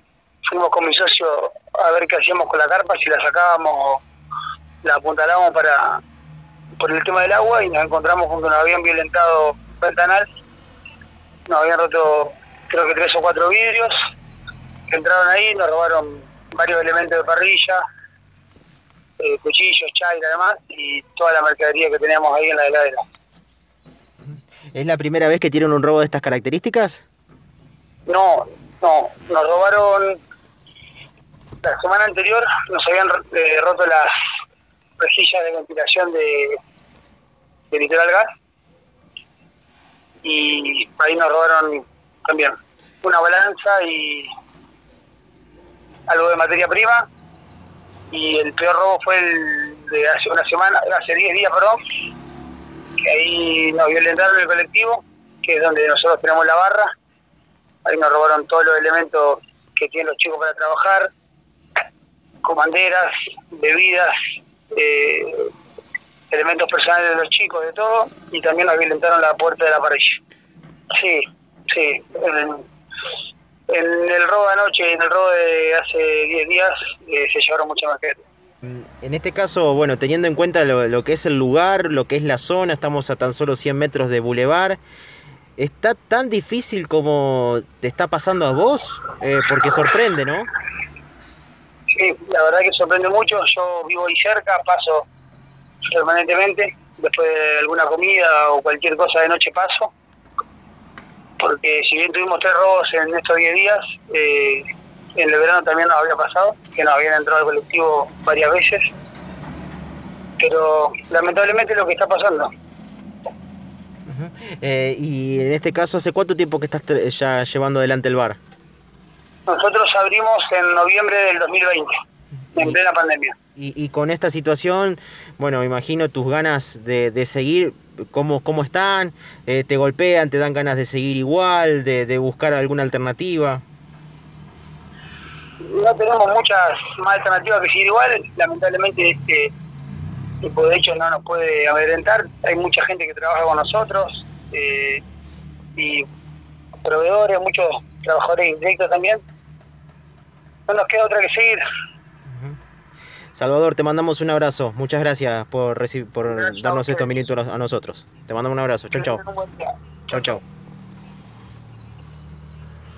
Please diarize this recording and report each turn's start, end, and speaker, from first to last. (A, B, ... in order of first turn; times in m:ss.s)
0:00.5-0:04.0 A
0:04.8-0:06.0 A
0:06.8-0:10.3 A
0:11.5-0:13.9 A
0:14.9-0:17.8 A
0:19.2-0:23.0 A
0:24.3-0:27.0 B
0:28.1-0:30.2 A
0:31.6-0:34.1 A
0:35.0-0:36.6 A
0:37.7-0:38.3 A
0:40.2-0:44.3 A
0:46.1-0:47.1 A
0:48.1-0:51.8 A
0:53.0-0:56.9 A
0:57.8-1:01.1 A
1:02.4-1:04.1 A
1:04.7-1:05.5 A
1:06.3-1:10.2 A
1:10.9-1:12.6 A
1:13.7-1:18.2 A
1:18.6-1:24.8 B
1:25.6-1:30.5 B
1:31.9-1:35.1 A
1:35.9-1:39.9 A
1:41.4-1:44.6 A
1:45.2-1:48.9 A
1:50.4-1:52.5 A
1:54.1-1:58.4 B
1:59.5-2:01.9 A
2:02.6-2:03.3 A
2:03.6-2:13.6 B
2:15.6-2:19.5 A
2:20.4-2:25.0 A
2:25.8-2:26.0 A
2:26.8-2:29.2 A
2:30.7-2:31.6 A
2:32.3-2:32.6 B
2:33.3-2:39.2 B
2:36.3-2:37.1 A
2:39.0-2:40.4 A
2:40.1-2:40.4 B